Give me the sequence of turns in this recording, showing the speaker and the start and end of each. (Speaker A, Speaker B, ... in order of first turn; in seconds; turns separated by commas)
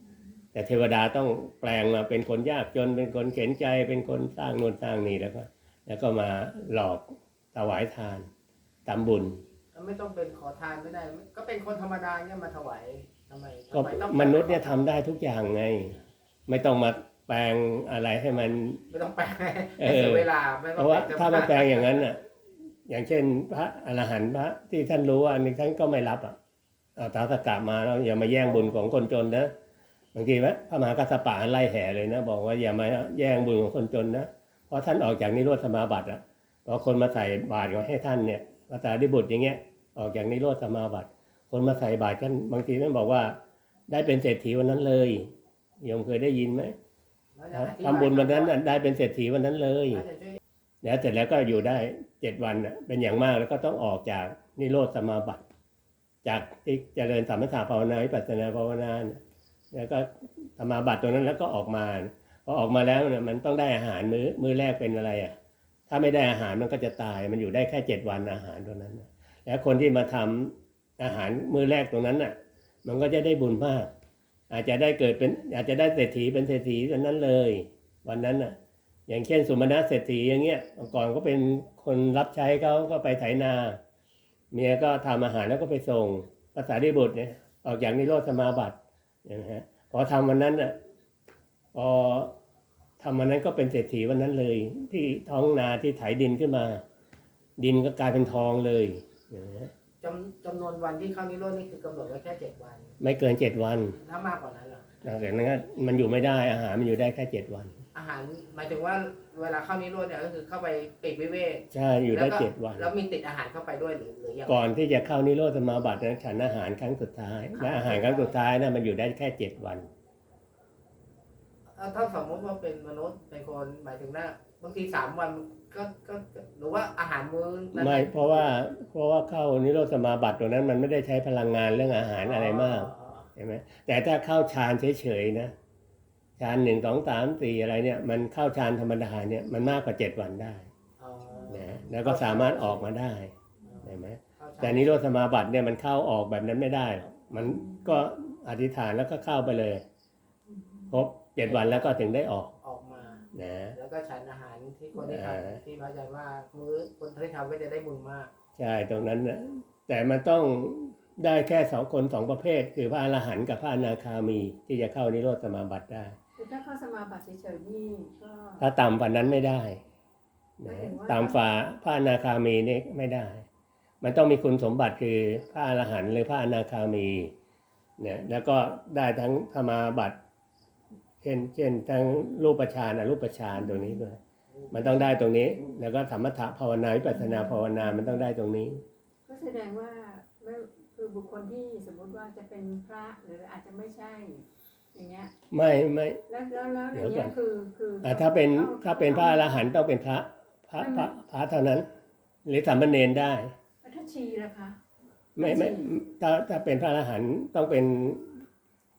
Speaker A: 0.5-8.3, Speaker A: 8.8-9.4, Speaker B: 9.7-14.8, Speaker A: 13.7-18.8, Speaker B: 18.9-22.0, Speaker A: 19.8-22.2, Speaker A: 22.9-26.4, Speaker A: 26.9-29.5, Speaker A: 30.1-43.4, Speaker A: 43.9-46.7, Speaker B: 47.4-48.6, Speaker A: 47.5-50.0, Speaker B: 49.9-50.4, Speaker A: 50.8-55.4, Speaker A: 56.2-59.2, Speaker A: 59.7-65.3, Speaker A: 65.9-72.3, Speaker A: 72.8-73.9, Speaker A: 74.5-78.5, Speaker A: 79.1-83.8, Speaker A: 84.5-90.8, Speaker A: 91.7-92.3, Speaker A: 93.0-96.8, Speaker A: 97.6-99.7, Speaker B: 100.0-102.9, Speaker A: 103.0-104.0, Speaker B: 104.0-105.0, Speaker A: 105.0-107.8, Speaker B: 107.9-114.7, Speaker A: 111.7-112.9, Speaker A: 114.5-119.9, Speaker B: 117.5-118.3, Speaker B: 121.8-128.5, Speaker A: 127.7-135.5, Speaker B: 132.2-133.3, Speaker A: 136.4-140.7, Speaker B: 141.0-142.9, Speaker A: 141.5-149.8, Speaker B: 143.7-145.0, Speaker C: 147.4-147.9, Speaker C: 150.5-150.9, Speaker A: 150.9-152.5, Speaker B: 151.4-152.0, Speaker B: 152.6-158.3, Speaker A: 153.3-153.8, Speaker A: 154.9-155.6, Speaker A: 158.6-166.2, Speaker C: 166.4-168.6, Speaker A: 168.6-169.8, Speaker A: 170.6-173.4, Speaker C: 170.7-171.4, Speaker A: 174.0-177.3, Speaker A: 178.0-180.2, Speaker A: 181.2-184.2, Speaker C: 183.7-184.0, Speaker B: 184.5-184.8, Speaker A: 184.7-188.8, Speaker C: 187.3-187.7, Speaker C: 189.3-195.3, Speaker A: 195.5-196.2, Speaker C: 196.3-199.6, Speaker A: 196.9-197.3, Speaker A: 198.0-201.8, Speaker C: 200.8-201.1, Speaker A: 202.4-203.5, Speaker C: 203.8-204.8, Speaker A: 205.3-208.4, Speaker C: 205.4-205.9